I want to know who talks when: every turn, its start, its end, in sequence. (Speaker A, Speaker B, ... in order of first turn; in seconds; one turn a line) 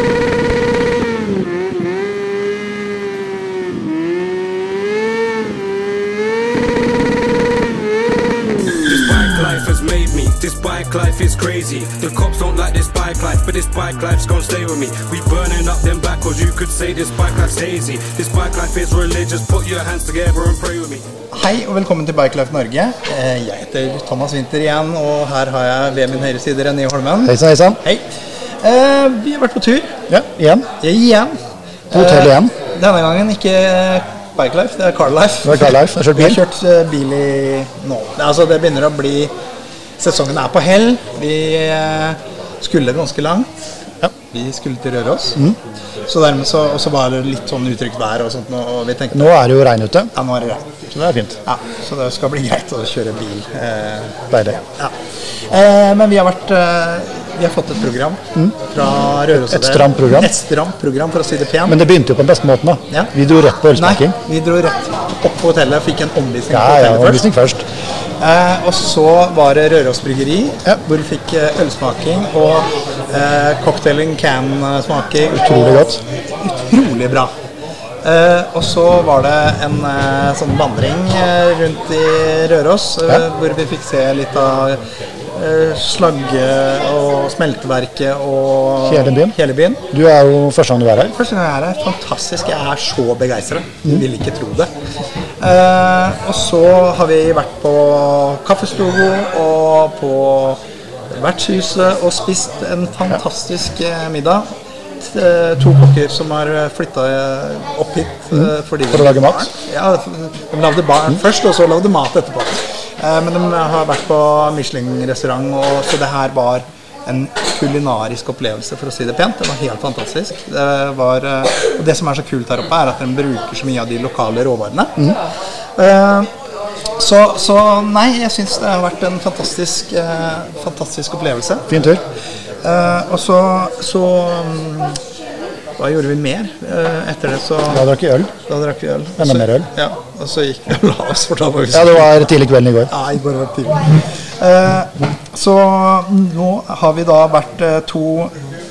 Speaker A: 8.8-21.1
Speaker B: 21.3-28.0
Speaker C: 27.2-27.8
Speaker B: 28.6-30.0
Speaker C: 30.1-30.7
Speaker B: 30.8-31.4
Speaker C: 31.9-32.5
Speaker B: 31.9-39.3
Speaker C: 35.4-36.4
Speaker B: 40.0-43.5
Speaker B: 44.3-45.4
Speaker B: 46.0-49.3
Speaker C: 49.1-50.1
Speaker B: 50.1-50.7
Speaker C: 50.9-51.4
Speaker B: 51.4-61.8
Speaker C: 54.3-54.6
Speaker C: 59.3-60.3
Speaker C: 61.6-64.2
Speaker B: 62.9-63.1
Speaker B: 63.7-67.3
Speaker C: 66.5-67.6
Speaker B: 68.2-77.3
Speaker C: 75.3-76.0
Speaker B: 78.0-89.8
Speaker C: 88.8-89.3
Speaker C: 89.9-91.1
Speaker B: 91.0-94.7
Speaker B: 95.4-104.5
Speaker B: 105.0-125.0
Speaker C: 108.3-109.5
Speaker B: 125.8-126.3
Speaker B: 127.0-131.8
Speaker C: 131.7-132.0
Speaker B: 132.6-135.0
Speaker B: 135.8-137.9
Speaker C: 137.7-138.3
Speaker B: 138.4-142.2
Speaker C: 139.2-139.7
Speaker C: 141.7-142.9
Speaker B: 142.9-148.3